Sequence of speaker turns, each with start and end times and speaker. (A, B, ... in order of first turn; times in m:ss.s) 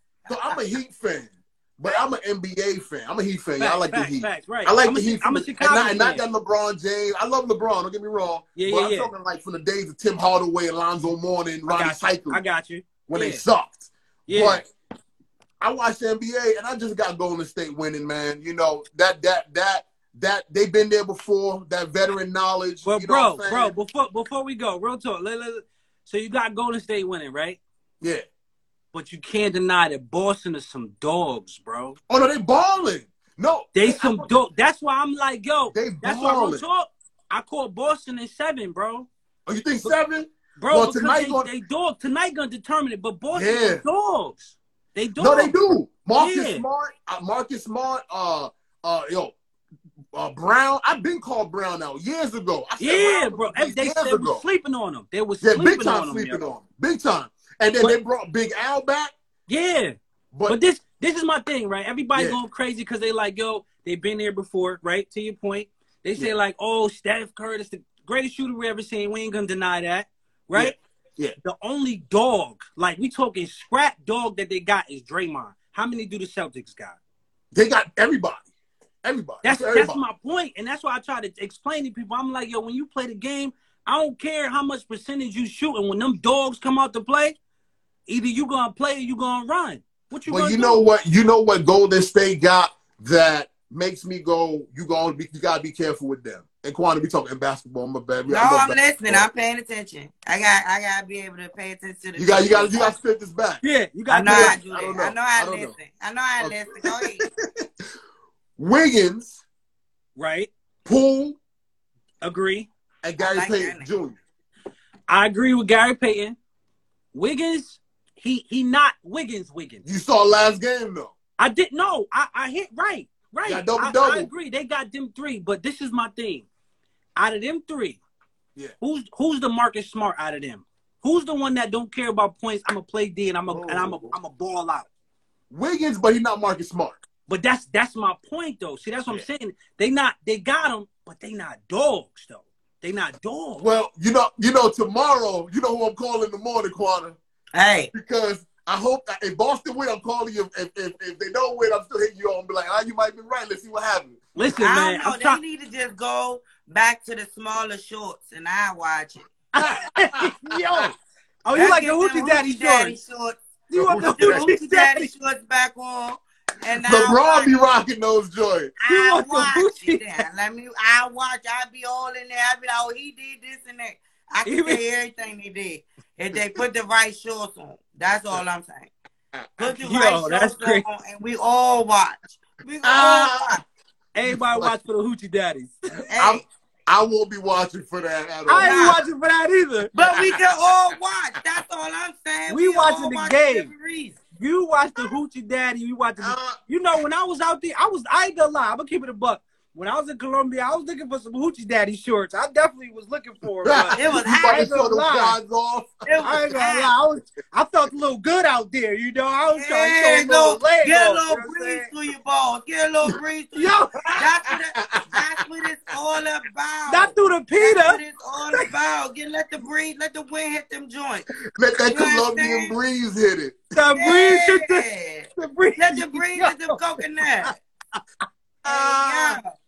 0:00.3-0:12.4 A
0:03.6-0:06.2 B
0:08.6-0:09.1 B
0:11.7-0:13.4 B
0:13.1-0:14.7 A
0:14.3-0:14.6 B
0:15.6-0:23.7 A
0:22.8-0:27.6 B
0:28.9-0:32.0 B
0:32.1-0:34.3 A
0:33.7-0:39.1 B
0:35.7-0:36.6 A
0:39.5-0:41.5 A
0:40.6-0:45.5 B
0:43.3-0:43.8 A
0:45.2-0:49.3 A
0:46.2-0:46.6 B
0:50.1-0:54.4 A
0:52.8-0:56.4 B
0:55.4-0:59.1 A
0:59.5-0:59.9 B
1:00.3-1:00.6 A
1:00.5-1:10.7 B
1:10.5-1:11.3 A
1:11.4-1:17.0 B
1:17.5-1:18.4 A
1:19.0-1:20.0 A
1:19.4-1:27.3 B
1:28.1-1:30.8 B
1:30.3-1:39.3 A
1:38.3-1:42.9 C
1:42.2-1:43.6 A
1:43.6-1:44.6 B
1:44.1-1:47.2 C
1:44.2-1:45.7 A
1:46.4-1:47.7 A
1:48.6-1:49.4 A
1:50.2-1:50.5 B
1:50.8-1:51.4 A
1:52.2-1:52.7 B
1:53.0-1:54.2 A
1:53.2-1:53.9 C
1:55.1-1:56.4 B
1:57.1-1:59.8 B
1:59.8-2:01.1 A
2:01.4-2:06.4 B
2:03.4-2:04.3 A
2:07.2-2:08.0 B
2:08.8-2:14.9 B
2:13.5-2:14.1 A
2:15.5-2:17.0 A
2:17.3-2:23.6 B
2:23.6-2:27.2 A
2:27.5-2:27.9 C
2:27.9-2:34.2 A
2:34.4-2:35.4 B
2:34.6-2:39.3 C
2:39.6-2:43.0 B
2:39.6-2:40.9 A
2:41.5-2:47.6 C
2:43.7-2:45.1 B
2:43.7-2:44.4 A
2:46.8-2:48.7 A
2:48.8-2:58.9 C
2:48.8-2:50.2 B
2:54.4-2:54.8 B
2:59.6-3:03.6 C
2:59.8-3:00.8 B
3:02.8-3:03.5 A
3:04.1-3:05.8 B
3:04.2-3:04.7 A
3:06.1-3:06.4 C
3:06.2-3:08.9 A
3:08.5-3:09.9 B
3:08.6-3:09.0 C
3:09.9-3:14.2 C
3:10.0-3:10.5 A
3:12.5-3:13.7 B
3:14.4-3:25.4 B
3:16.2-3:16.6 A
3:23.6-3:26.4 A
3:23.9-3:24.7 C
3:26.1-3:26.9 C
3:26.2-3:31.9 B
3:29.5-3:41.2 C
3:33.6-3:34.2 B
3:34.8-3:35.1 A
3:36.9-3:38.0 B
3:41.5-3:43.7 A
3:41.8-3:42.7 C
3:43.7-3:44.8 B
3:43.9-3:47.5 C
3:45.4-3:46.8 B
3:48.6-3:49.4 A
3:48.7-3:49.4 C